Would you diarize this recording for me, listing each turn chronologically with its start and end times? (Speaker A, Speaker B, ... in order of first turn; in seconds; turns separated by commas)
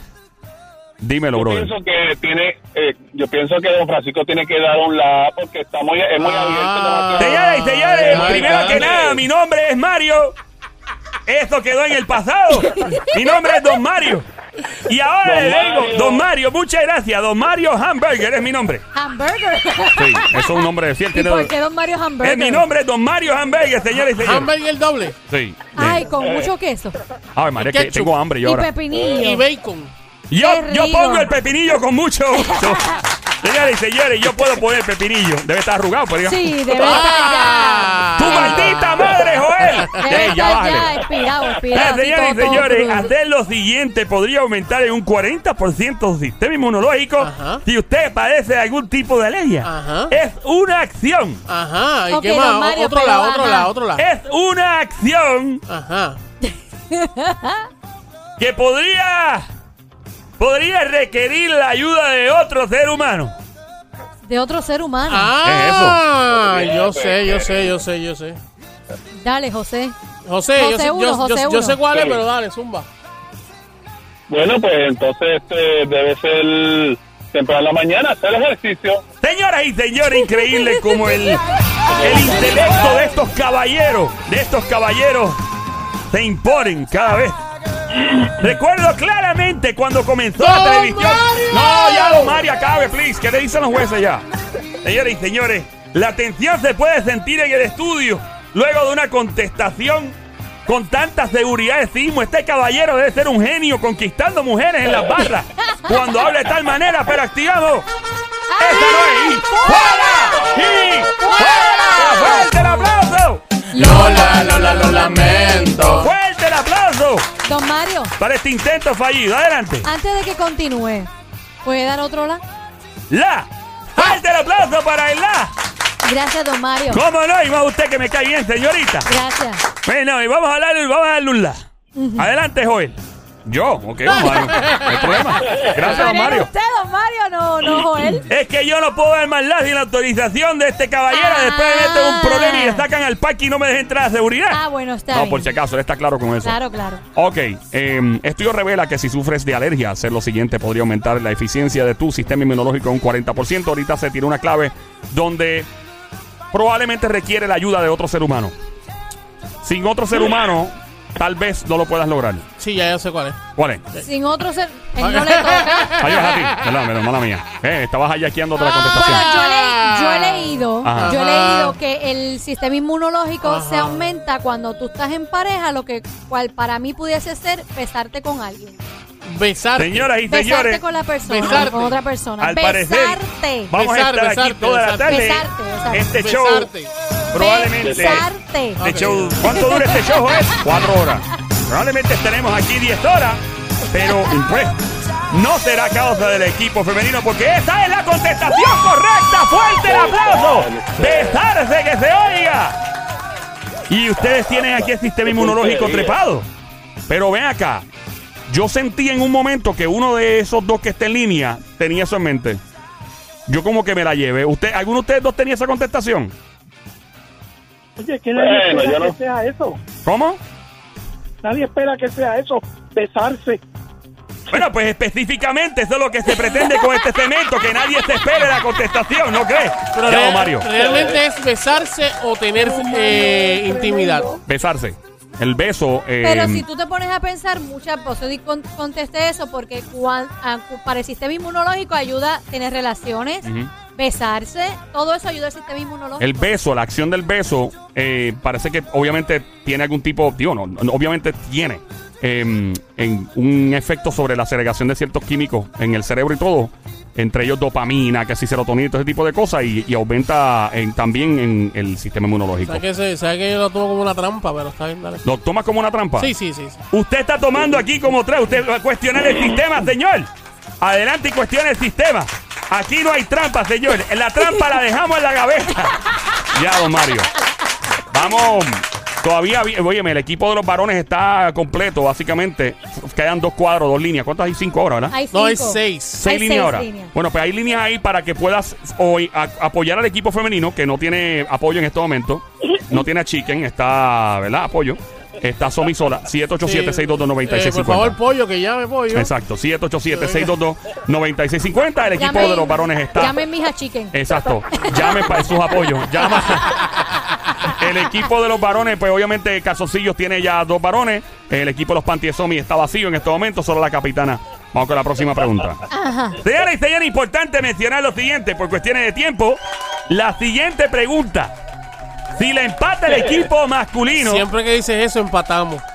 Speaker A: 1.0-1.7, Speaker B: 1.3-9.2, Speaker C: 6.2-9.1, Speaker A: 7.2-10.3, Speaker A: 11.3-14.3, Speaker D: 12.6-13.1, Speaker A: 14.8-18.8, Speaker B: 15.2-16.3, Speaker D: 18.9-22.6, Speaker A: 19.9-21.5, Speaker A: 22.2-24.5, Speaker C: 24.1-25.2, Speaker A: 25.3-26.0, Speaker D: 25.8-27.0, Speaker B: 26.2-26.5, Speaker A: 27.3-28.7, Speaker C: 27.6-28.1, Speaker D: 28.4-29.4, Speaker C: 29.0-29.9, Speaker A: 30.3-36.5, Speaker D: 30.4-31.3, Speaker D: 32.4-33.0, Speaker D: 36.2-38.8, Speaker C: 36.7-38.8, Speaker A: 38.2-41.0, Speaker B: 39.1-39.3, Speaker D: 40.0-43.1, Speaker A: 41.7-51.4, Speaker C: 47.2-47.6, Speaker C: 49.6-50.1, Speaker C: 51.5-54.0, Speaker D: 52.1-53.7, Speaker A: 54.0-55.6, Speaker C: 55.7-56.2, Speaker D: 56.4-57.7, Speaker A: 58.4-59.5, Speaker A: 60.4-63.3, Speaker D: 64.2-65.3, Speaker C: 65.1-68.4, Speaker A: 65.4-66.0, Speaker B: 66.3-67.8, Speaker D: 69.2-69.9, Speaker C: 70.2-72.9, Speaker D: 70.5-71.8, Speaker B: 71.9-72.2, Speaker B: 74.3-79.0, Speaker A: 79.2-81.4, Speaker D: 80.2-81.3, Speaker B: 81.9-83.1, Speaker A: 82.0-85.4, Speaker A: 86.1-87.4, Speaker A: 88.3-94.2, Speaker C: 90.4-92.4, Speaker A: 94.8-107.9, Speaker D: 108.5-110.5, Speaker A: 108.6-114.0, Speaker B: 110.3-111.1, Speaker D: 111.2-112.5, Speaker D: 113.7-115.9, Speaker C: 113.8-116.1, Speaker A: 115.8-117.3, Speaker D: 117.4-118.1, Speaker A: 118.2-119.9, Speaker D: 119.8-121.1, Speaker D: 121.6-122.4, Speaker A: 123.1-125.5, Speaker D: 126.0-127.0, Speaker A: 126.9-129.1, Speaker D: 129.1-129.6, Speaker A: 129.8-131.6, Speaker D: 131.9-132.3, Speaker A: 132.2-136.5, Speaker D: 134.1-134.5, Speaker D: 135.6-138.3, Speaker A: 138.3-146.6, Speaker D: 141.1-142.8, Speaker D: 144.5-145.5, Speaker D: 146.4-147.0, Speaker A: 147.1-155.7, Speaker A: 156.5-158.5, Speaker A: 159.6-162.4, Speaker C: 162.6-163.4, Speaker A: 163.6-163.8, Speaker D: 164.0-166.0, Speaker C: 165.0-166.8, Speaker A: 166.0-169.3, Speaker D: 168.6-178.8, Speaker C: 168.9-171.8, Speaker A: 170.8-171.2, Speaker C: 173.4-174.1, Speaker C: 179.2-180.1, Speaker A: 179.8-180.8, Speaker D: 180.3-183.7, Speaker C: 181.2-182.0, Speaker A: 182.4-186.7, Speaker C: 183.7-185.3, Speaker D: 185.1-186.1, Speaker C: 186.1-186.9, Speaker A: 187.3-188.3, Speaker D: 187.3-188.8, Speaker B: 187.8-188.2, Speaker C: 188.8-189.6, Speaker A: 188.8-202.8, Speaker D: 189.4-190.6, Speaker B: 199.8-201.4, Speaker A: 203.9-206.5, Speaker B: 204.2-206.1, Speaker A: 207.1-207.8, Speaker A: 208.5-212.6, Speaker A: 213.5-216.3, Speaker E: 218.0-219.8, Speaker B: 218.3-219.2, Speaker A: 220.0-220.4, Speaker E: 221.4-223.6, Speaker A: 224.5-230.7, Speaker C: 229.9-234.3, Speaker B: 230.8-231.1, Speaker E: 232.6-234.4, Speaker A: 234.5-236.6, Speaker D: 236.2-246.6, Speaker A: 243.4-243.7, Speaker A: 246.2-262.8, Speaker C: 262.6-265.2, Speaker A: 265.2-266.3, Speaker C: 266.2-266.8, Speaker A: 266.9-277.3, Speaker A: 278.1-285.1, Speaker D: 285.1-287.1, Speaker C: 285.3-286.2, Speaker A: 286.2-298.2, Speaker C: 296.6-299.3, Speaker A: 299.1-303.4, Speaker C: 300.1-300.5, Speaker D: 302.2-304.1, Speaker A: 304.1-306.9, Speaker A: 307.7-315.8, Speaker D: 315.9-316.4, Speaker A: 316.4-321.5, Speaker A: 322.3-324.4, Speaker C: 324.1-325.8